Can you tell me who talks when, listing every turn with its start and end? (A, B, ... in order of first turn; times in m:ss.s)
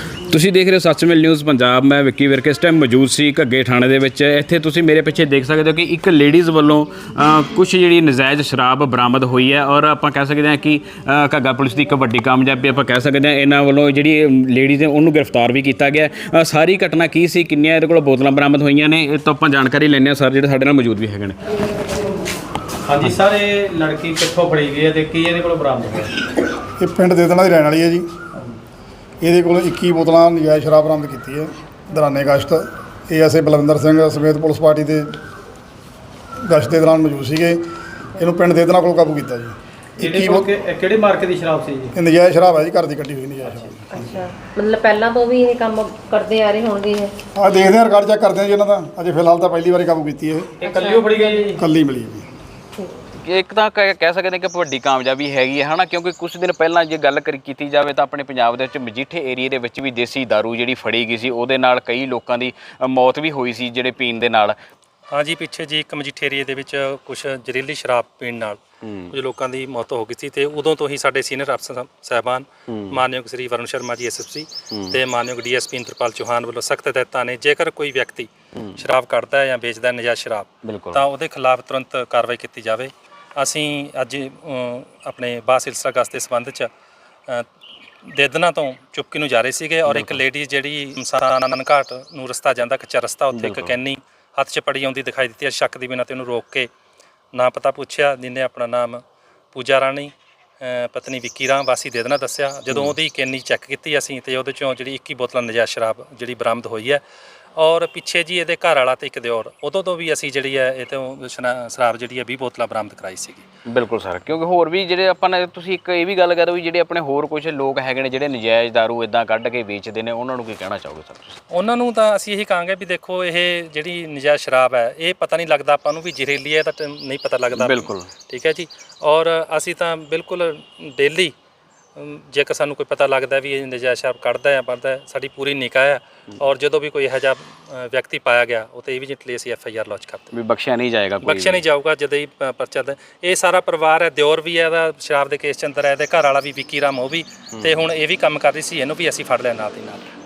0:00.3-0:21.4 A
0:22.8-0:26.2 B
0:26.8-0:28.1 C
0:29.2-0:35.1 C
0:36.4-0:37.6 C
0:38.2-0:40.5 C
0:40.0-0:41.9 B
0:42.0-0:44.0 C
0:43.9-0:47.1 D
0:47.4-0:50.6 C
0:50.6-0:51.6 B
0:50.6-0:51.4 D
0:51.5-0:52.3 C
0:53.2-1:04.6 A
1:05.1-1:26.7 E
1:08.8-1:09.1 A
1:12.7-1:13.0 A
1:14.7-1:15.0 A
1:20.6-1:21.0 A
1:28.0-1:36.7 E
1:29.9-1:30.2 A
1:33.3-1:33.8 A
1:37.3-1:39.0 E
1:39.5-1:47.0 E
1:47.6-1:53.4 E
1:53.7-2:01.4 A
2:01.5-2:11.3 E
2:07.5-2:08.1 A
2:12.0-2:20.3 E
2:20.3-2:21.6 A
2:21.2-2:30.0 E